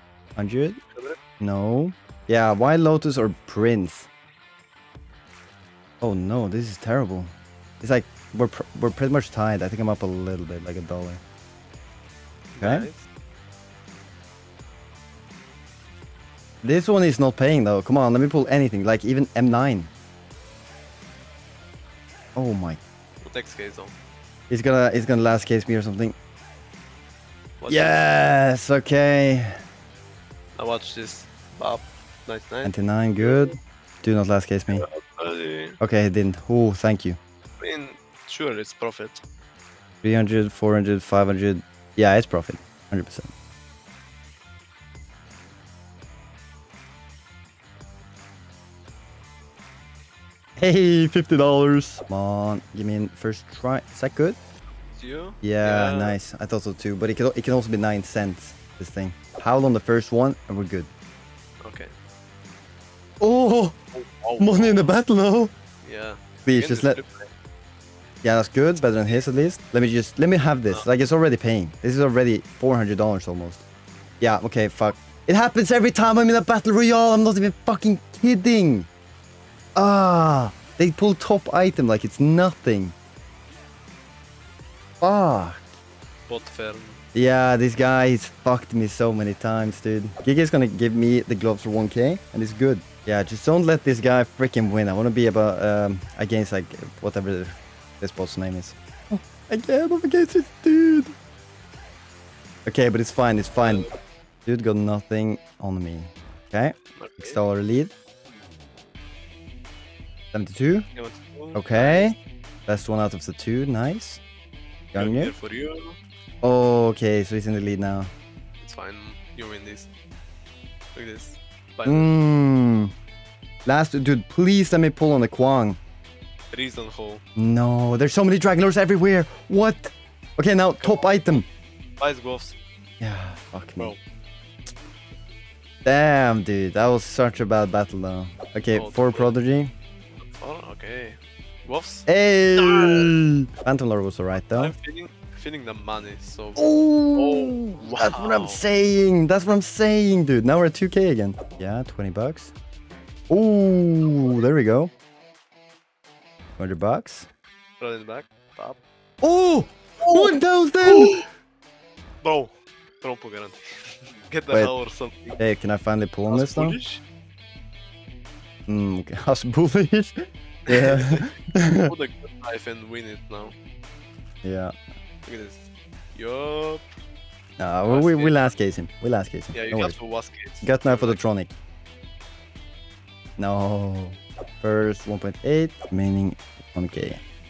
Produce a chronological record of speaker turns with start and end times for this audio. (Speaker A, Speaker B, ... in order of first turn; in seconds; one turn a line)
Speaker A: 0.3-0.8
Speaker B: 0.9-1.2
Speaker A: 1.4-4.1
Speaker A: 6.0-11.2
Speaker B: 12.5-13.0
Speaker A: 12.6-12.9
Speaker A: 16.6-19.9
Speaker A: 22.3-22.8
Speaker B: 23.2-23.9
Speaker A: 24.5-26.1
Speaker B: 27.6-28.0
Speaker A: 27.7-29.6
Speaker B: 30.6-33.5
Speaker A: 32.6-34.8
Speaker B: 34.7-35.8
Speaker A: 35.8-37.2
Speaker B: 37.6-39.2
Speaker A: 40.0-43.3
Speaker A: 50.6-54.4
Speaker B: 54.9-56.2
Speaker A: 55.4-60.9
Speaker B: 61.6-61.9
Speaker A: 63.2-63.8
Speaker B: 63.9-64.9
Speaker A: 64.4-65.5
Speaker B: 65.8-67.3
Speaker A: 66.4-67.0
Speaker A: 68.2-73.6
Speaker A: 74.2-78.9
Speaker A: 79.8-82.9
Speaker A: 85.0-85.6
Speaker B: 86.3-87.0
Speaker A: 87.1-101.1
Speaker A: 102.7-103.9
Speaker B: 103.6-103.9
Speaker A: 104.5-107.9
Speaker B: 107.0-107.4
Speaker A: 110.3-110.9
Speaker B: 110.9-112.1
Speaker A: 111.5-112.2
Speaker A: 112.7-114.2
Speaker A: 114.9-115.3
Speaker B: 114.9-116.0
Speaker A: 116.4-118.1
Speaker B: 118.6-119.9
Speaker B: 120.9-122.1
Speaker A: 121.8-122.9
Speaker A: 123.6-125.8
Speaker B: 126.5-127.2
Speaker A: 127.4-131.4
Speaker B: 130.8-131.4
Speaker B: 132.0-132.6
Speaker A: 133.0-133.9
Speaker A: 135.8-139.7
Speaker B: 138.7-139.3
Speaker B: 140.2-143.1
Speaker A: 142.1-144.7
Speaker B: 144.3-148.6
Speaker A: 146.6-152.5
Speaker A: 153.3-154.9
Speaker B: 154.1-154.4
Speaker A: 156.6-157.3
Speaker B: 157.8-158.8
Speaker A: 159.2-161.2
Speaker B: 160.0-161.3
Speaker B: 162.2-165.4
Speaker A: 165.4-166.8
Speaker B: 166.3-167.0
Speaker A: 168.7-171.9
Speaker B: 170.7-171.3
Speaker B: 171.8-173.5
Speaker A: 174.4-174.7
Speaker B: 175.2-176.9
Speaker A: 177.6-179.9
Speaker B: 177.8-178.6
Speaker B: 179.5-181.2
Speaker A: 180.6-181.5
Speaker A: 183.4-187.2